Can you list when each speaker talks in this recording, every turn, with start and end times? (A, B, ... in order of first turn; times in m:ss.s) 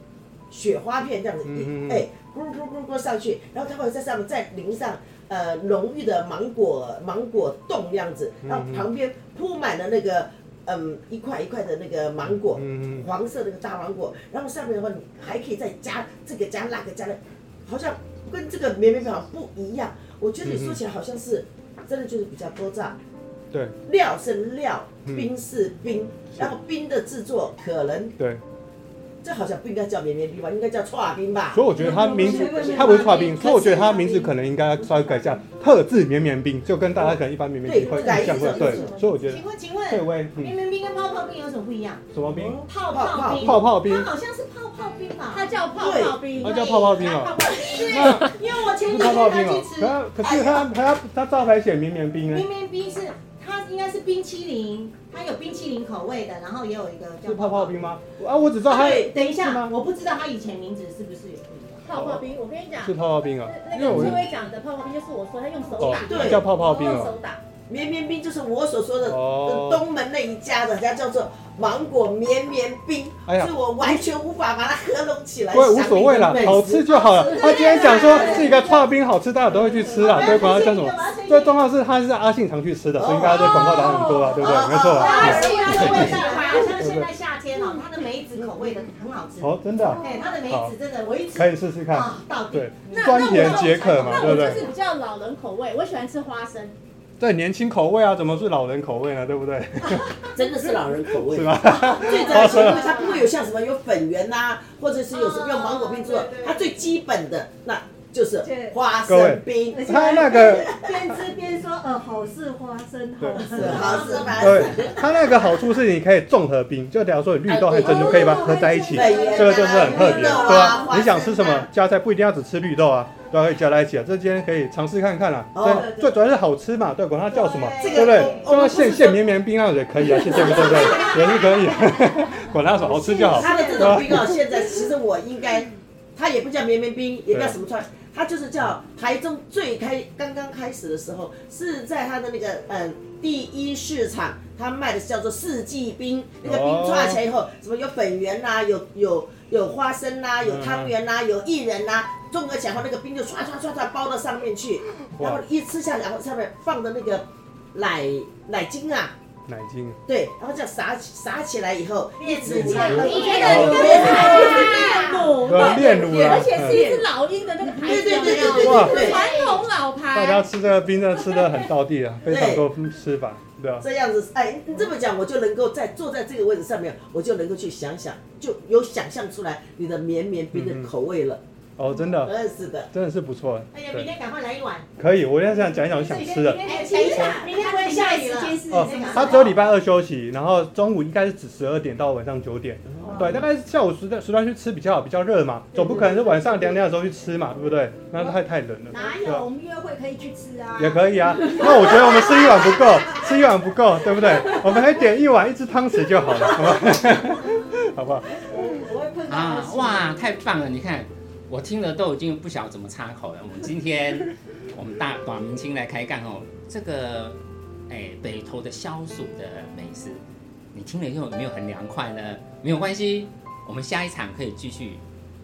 0:00.5-0:23.0 A
0:01.4-0:02.1 B
0:08.4-0:08.9 B
0:12.2-0:13.1 B
0:20.4-0:20.8 B
0:23.5-0:23.8 B
0:23.8-0:28.1 A
0:25.0-0:25.3 B
0:29.2-0:33.9 A
0:31.5-0:40.6 B
0:31.8-0:34.3 C
0:31.8-0:33.8 D
0:35.0-0:35.3 D
0:37.0-0:39.0 A
0:37.9-0:42.1 C
0:42.1-0:42.6 B
0:42.2-0:43.5 A
0:42.6-0:45.6 C
0:43.4-0:44.1 B
0:45.3-0:46.7 E
0:45.7-0:46.2 A
0:46.4-0:52.5 B
0:46.4-0:50.0 C
0:50.2-0:50.6 A
0:52.2-0:57.9 C
0:57.2-0:59.7 B
0:58.6-0:59.1 A
0:58.7-1:01.8 C
1:01.8-1:07.4 E
1:01.9-1:02.2 B
1:02.8-1:04.2 B
1:05.8-1:07.1 B
1:05.8-1:06.4 A
1:07.7-1:18.7 A
1:09.0-1:09.8 B
1:13.2-1:14.0 B
1:15.5-1:27.1 B
1:17.0-1:18.2 D
1:17.3-1:18.6 C
1:19.5-1:21.6 C
1:23.0-1:26.5 A
1:23.4-1:23.6 C
1:23.5-1:24.3 D
1:24.4-1:34.6 C
1:26.1-1:26.6 D
1:29.4-1:30.7 B
1:29.8-1:30.3 D
1:31.3-1:34.6 B
1:32.9-1:36.7 E
1:33.1-1:33.5 D
1:37.2-1:43.0 B
1:40.3-1:50.6 A
1:42.0-1:43.2 D
1:42.6-1:43.2 E
1:45.1-1:46.6 C
1:45.6-1:46.1 D
1:48.4-1:48.8 D
1:49.0-1:51.2 B
1:49.7-1:54.8 D
1:53.2-2:14.4 B
1:53.4-1:55.1 A
1:54.0-1:54.3 C
1:57.5-2:01.7 A
1:57.8-2:00.9 D
2:05.5-2:06.1 A
2:07.3-2:08.6 C
2:07.8-2:09.2 A
2:10.1-2:11.5 A
2:10.3-2:11.7 C
2:12.8-2:39.1 A
2:13.2-2:13.5 D
2:13.4-2:14.0 C
2:17.3-2:17.6 B
2:26.4-2:27.2 B
2:30.4-2:30.9 B
2:39.5-2:40.0 B
2:40.1-2:44.9 A
2:42.2-2:45.4 C
2:42.8-2:50.4 E
2:42.9-2:44.2 B
2:42.9-2:45.9 D
2:45.4-2:46.9 B
2:45.5-2:47.0 A
2:47.8-2:49.2 D
2:47.8-2:49.2 A
2:48.4-2:49.6 C
2:48.5-2:49.0 B
2:50.1-2:53.8 B
2:52.2-2:52.6 A
2:53.8-3:01.4 A
3:00.5-3:00.9 B
3:01.8-3:02.3 B
3:02.2-3:02.9 A
3:02.9-3:04.1 B
3:03.7-3:04.8 C
3:05.0-3:07.4 B
3:06.0-3:09.5 C
3:06.6-3:09.0 D
3:08.7-3:19.5 B
3:13.0-3:13.3 A
3:13.0-3:13.3 D
3:18.9-3:22.8 D
3:20.8-3:28.4 B
3:28.5-3:30.1 D
3:29.2-3:40.2 F
3:40.7-3:45.0 F